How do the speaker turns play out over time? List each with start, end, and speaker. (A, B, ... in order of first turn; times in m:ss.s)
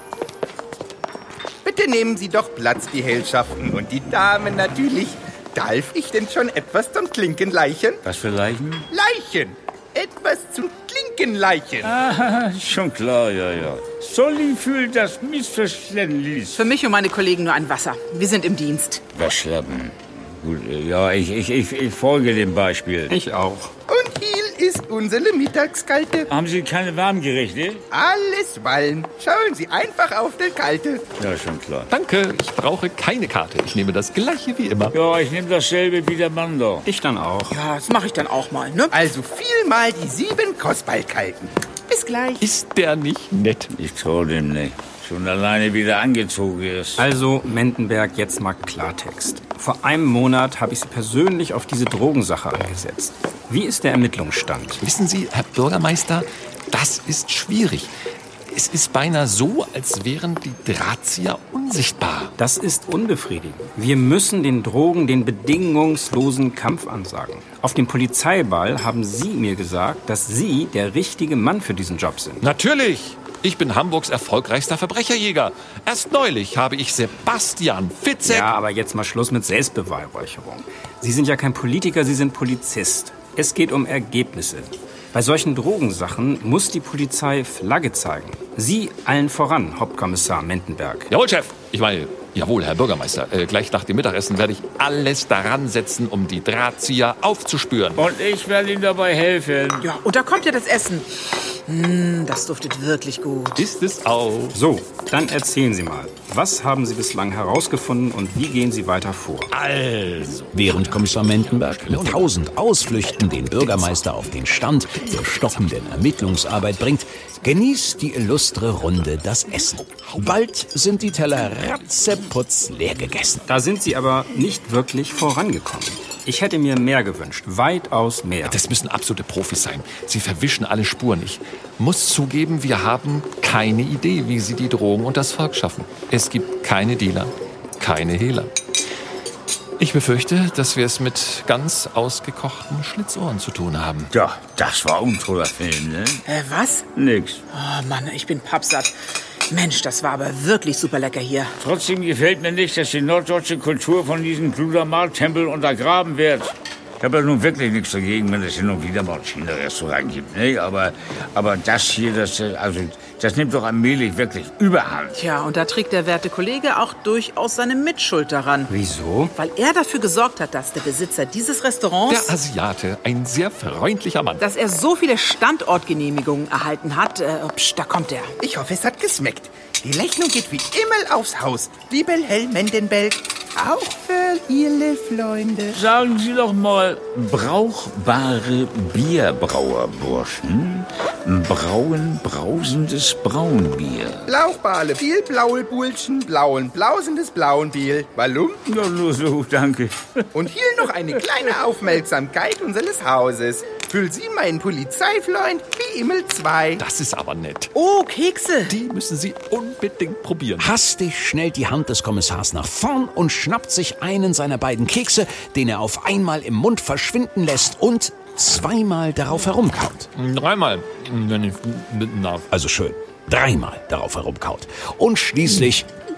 0:01.6-0:08.0 A
0:08.0-0:08.9 B
0:08.9-0:11.9 A
0:11.8-0:16.7 B
0:16.6-0:19.0 C
0:19.1-0:23.1 B
0:23.1-0:23.7 D
0:23.9-0:26.3 A
0:26.3-0:27.8 B
0:27.9-0:31.0 A
0:31.2-0:31.9 B
0:31.9-0:35.0 E
0:34.9-0:36.9 B
0:36.8-0:37.6 D
0:37.5-0:38.9 C
0:38.9-0:41.5 A
0:41.9-0:42.4 C
0:42.4-0:43.7 E
0:43.7-0:47.0 B
0:47.0-0:54.8 D
0:54.8-0:57.9 E
0:58.5-1:02.3 E
1:02.4-1:12.4 D
1:12.4-1:18.5 E
1:18.2-1:31.1 D
1:31.1-1:38.0 E
1:38.0-1:39.8 B
1:39.8-1:43.6 C
1:43.6-1:44.6 E
1:44.5-1:49.5 D
1:49.5-1:52.3 E
1:50.5-2:03.4 F
2:03.5-2:08.6 D
2:08.4-2:18.5 E
2:19.8-2:24.1 E
2:24.1-2:26.2 B
2:26.2-2:26.8 C
2:26.9-2:27.4 B
2:27.5-2:28.9 C
2:29.5-2:31.5 C
2:31.6-2:45.2 B
2:45.1-2:48.7 C
2:48.7-2:49.3 D
2:49.3-2:52.3 C
2:52.1-2:54.4 E
2:54.4-2:58.4 C
2:58.4-3:05.8 A
3:05.7-3:14.3 B
3:14.3-3:18.6 A
3:18.6-3:20.3 B
3:20.3-3:26.8 A
3:26.8-3:27.7 E
3:27.7-3:28.7 C
3:28.7-3:30.7 E
3:30.6-3:40.1 F
3:40.1-3:42.5 E
3:42.5-3:45.9 F